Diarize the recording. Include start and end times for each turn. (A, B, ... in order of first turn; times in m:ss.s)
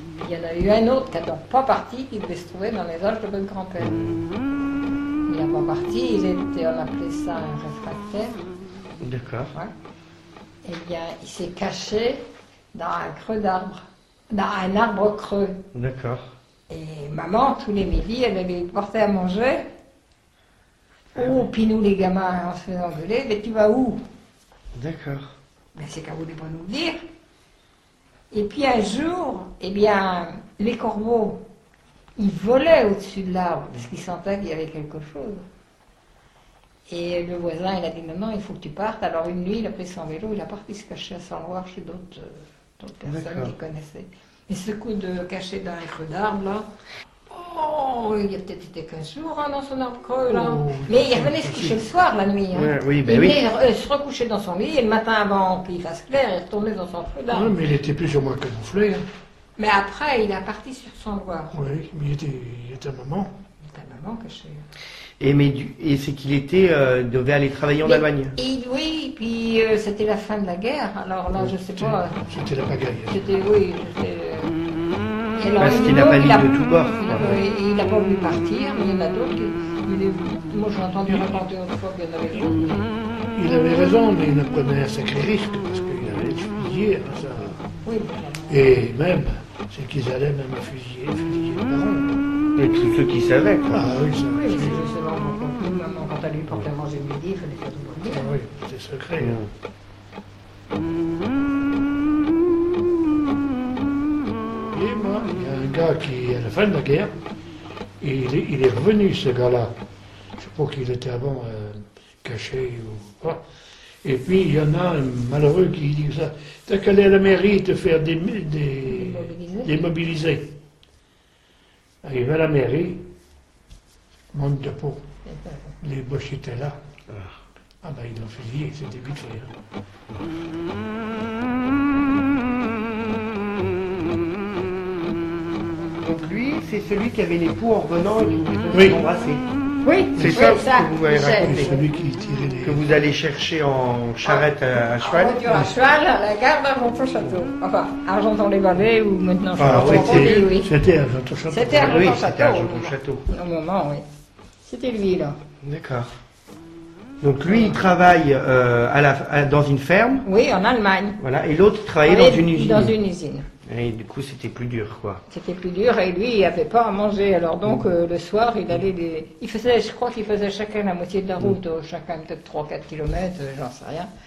0:00.2-0:04.0 A
0:03.8-0:04.3 B
0:05.3-0:08.4 A
0:09.0-0:09.5 B
0:10.6-0:15.7 A
0:15.7-0:16.2 B
0:16.7-0:19.7 A
0:21.1-0:24.0 A
0:24.8-0:25.3 B
0:25.8-0:27.0 A
0:28.3-0:31.4 A
0:32.2-0:35.4 A
0:36.9-0:46.7 A
0:43.0-0:43.5 B
0:47.3-0:57.6 A
0:50.2-0:51.8 C
0:52.5-0:53.4 B
0:57.3-0:59.0 C
0:59.6-1:01.6 A
1:01.5-1:03.3 C
1:03.6-1:04.6 A
1:05.2-1:08.3 B
1:07.8-1:12.2 A
1:11.4-1:13.2 C
1:13.1-1:14.6 A
1:15.4-1:22.9 A
1:15.6-1:17.4 B
1:21.0-1:21.3 C
1:23.3-1:27.6 C
1:27.8-1:28.8 A
1:28.5-1:32.2 C
1:32.6-1:33.8 B
1:33.7-1:34.9 C
1:34.3-1:38.3 A
1:38.1-1:39.4 C
1:39.2-1:39.5 B
1:44.5-1:47.1 C
1:48.0-1:49.7 C
1:50.4-1:53.4 C
1:54.0-2:00.5 C
1:58.9-1:59.8 A
2:02.0-2:03.1 C
2:04.3-2:05.0 C
2:05.2-2:05.8 A
2:05.8-2:06.8 C
2:07.8-2:09.5 C
2:16.0-2:19.4 B
2:18.7-2:19.0 C
2:19.8-2:21.8 A
2:20.2-2:20.6 C
2:20.2-2:21.8 B
2:21.2-2:22.9 C
2:22.6-2:25.7 B
2:24.2-2:30.7 A
2:29.6-2:30.4 B
2:29.6-2:32.1 C
2:31.5-2:34.0 A
2:31.8-2:33.3 B
2:34.6-2:35.4 A
2:35.6-2:36.1 B
2:37.2-2:40.3 B
2:37.4-2:37.8 A
2:40.2-2:41.2 A
2:41.2-2:42.9 B
2:42.0-2:43.5 A
2:43.6-2:45.2 B
2:45.3-2:54.1 A